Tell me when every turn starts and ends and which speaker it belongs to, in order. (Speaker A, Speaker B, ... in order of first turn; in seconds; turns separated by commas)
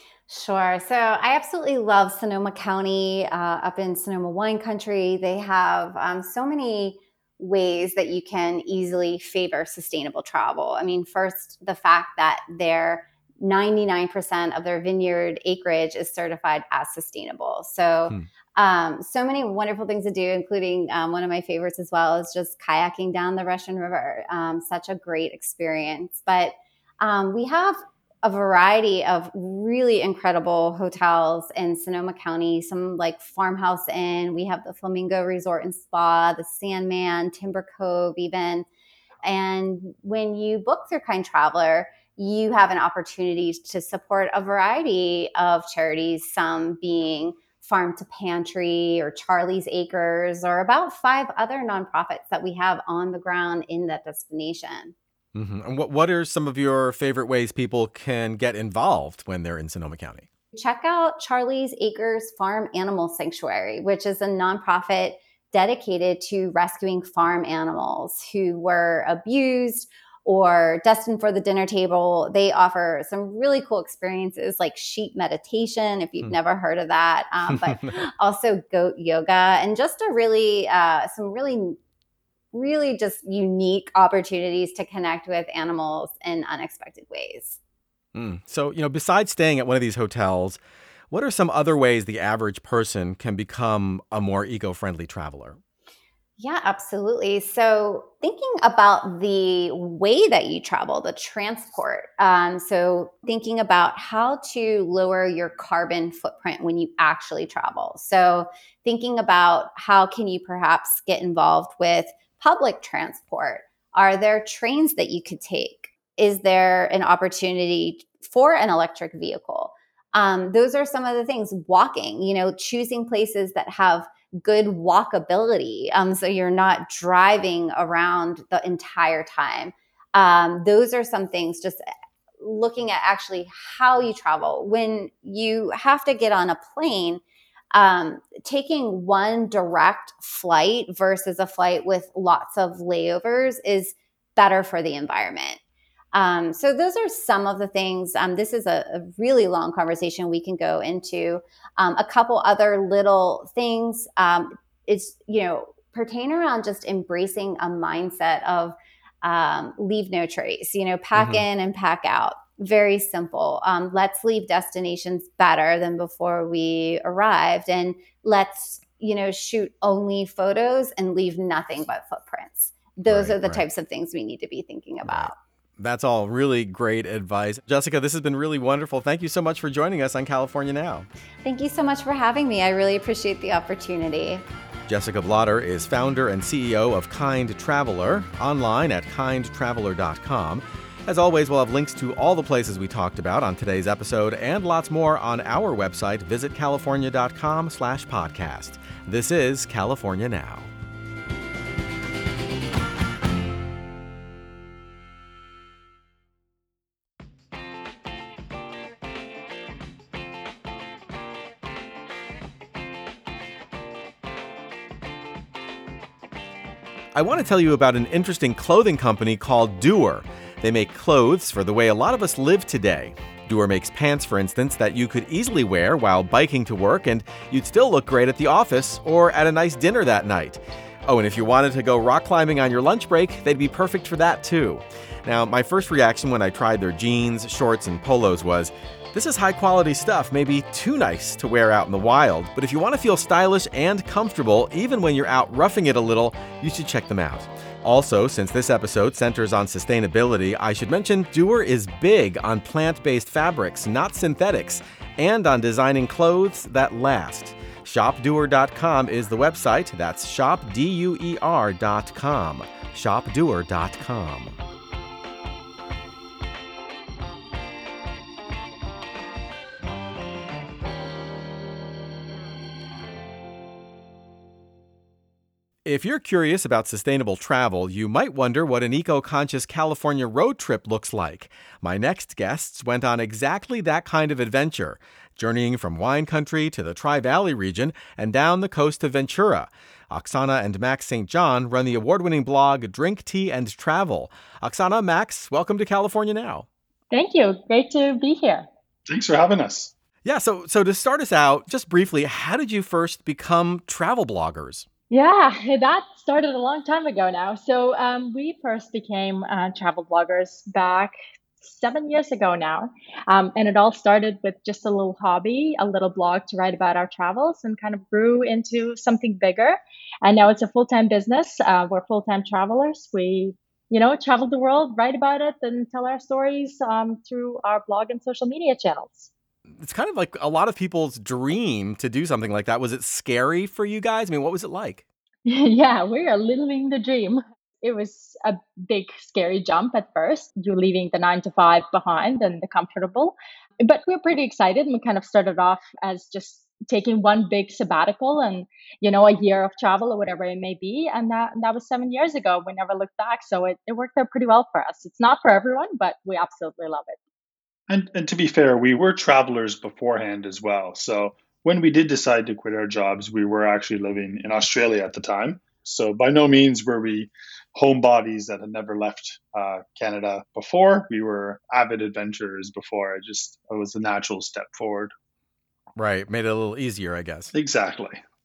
Speaker A: 0.3-38.6, Speaker A: 39.2-54.9, Speaker B: 55.3-60.2, Speaker A: 60.5-81.8, Speaker B: 77.5-77.9, Speaker A: 82.5-87.6, Speaker B: 88.1-90.6, Speaker B: 91.1-95.6, Speaker A: 96.4-131.8, Speaker A: 132.4-137.2, Speaker A: 137.7-145.6, Speaker A: 146.1-175.4, Speaker B: 161.1-161.4, Speaker B: 173.1-173.6, Speaker B: 175.0-181.1, Speaker A: 181.4-184.4, Speaker B: 184.9-200.7, Speaker B: 217.1-264.6, Speaker B: 275.8-296.6, Speaker C: 297.1-298.7, Speaker D: 299.1-299.9, Speaker B: 300.2-304.9, Speaker C: 305.1-329.3, Speaker B: 329.8-335.0, Speaker C: 335.4-357.2, Speaker D: 357.9-375.1, Speaker B: 375.9-377.5, Speaker D: 377.5-378.2